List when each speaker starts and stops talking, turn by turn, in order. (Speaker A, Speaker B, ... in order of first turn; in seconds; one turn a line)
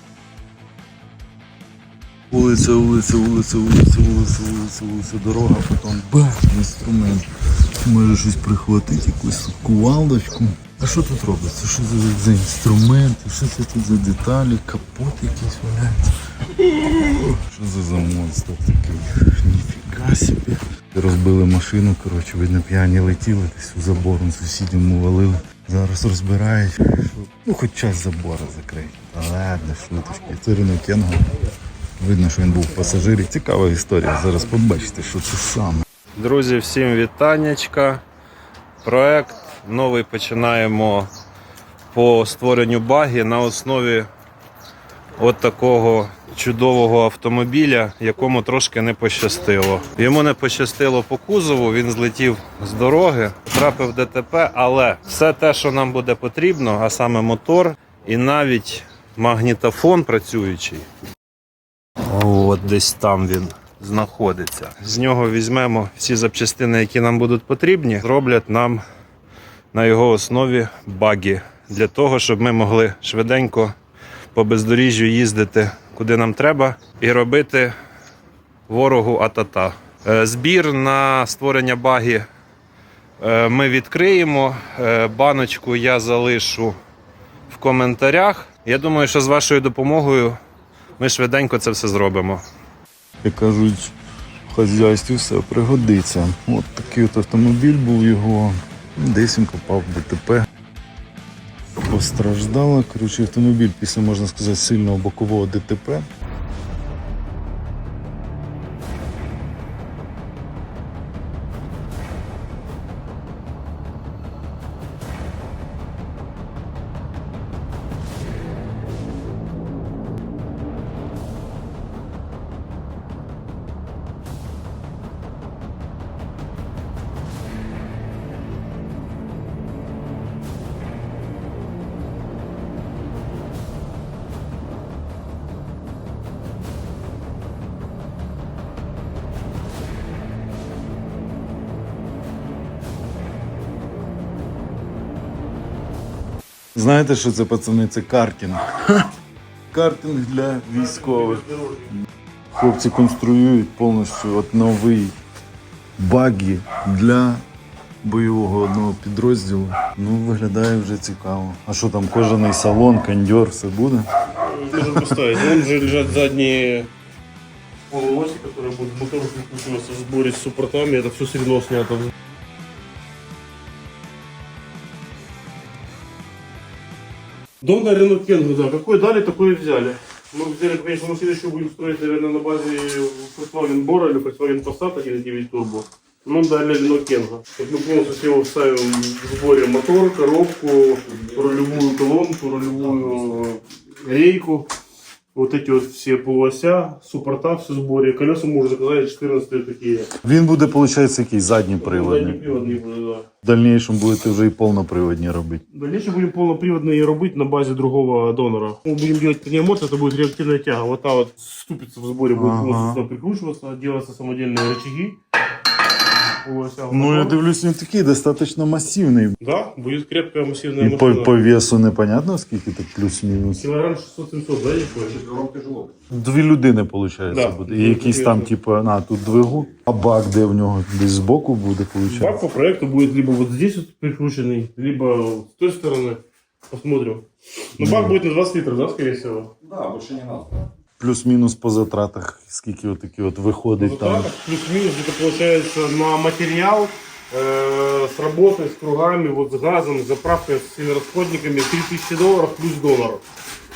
Speaker A: 2.3-7.3
Speaker A: 7.8-31.3
Speaker A: 32.0-35.9
Speaker B: 36.2-38.0
Speaker B: 38.8-41.1
Speaker B: 41.9-44.1
Speaker B: 45.2-60.9
Speaker B: 62.1-68.8
Speaker B: 69.7-73.7
Speaker B: 74.3-77.7
Speaker B: 78.7-82.3
Speaker B: 83.2-86.7
Speaker B: 87.5-90.4
Speaker B: 91.0-92.4
Speaker A: 93.2-93.9
Speaker A: 94.5-100.5
Speaker A: 101.8-106.1
Speaker A: 146.8-149.1
Speaker A: 149.7-151.4
Speaker C: 150.7-151.9
Speaker A: 152.5-155.2
Speaker A: 156.0-157.4
Speaker A: 158.0-164.1
Speaker C: 164.4-166.9
Speaker C: 167.9-172.1
Speaker C: 177.6-194.7
Speaker C: 195.3-200.1
Speaker A: 200.2-202.4
Speaker C: 201.8-203.3
Speaker A: 203.4-205.6
Speaker C: 205.7-215.2
Speaker A: 212.3-213.0
Speaker C: 216.4-217.4
Speaker A: 216.9-219.4
Speaker C: 219.4-221.4
Speaker A: 220.8-223.6
Speaker C: 223.6-225.7
Speaker A: 226.1-232.4
Speaker C: 227.3-228.5
Speaker C: 232.1-240.4
Speaker A: 237.8-238.2
Speaker A: 241.0-244.3
Speaker C: 243.8-253.2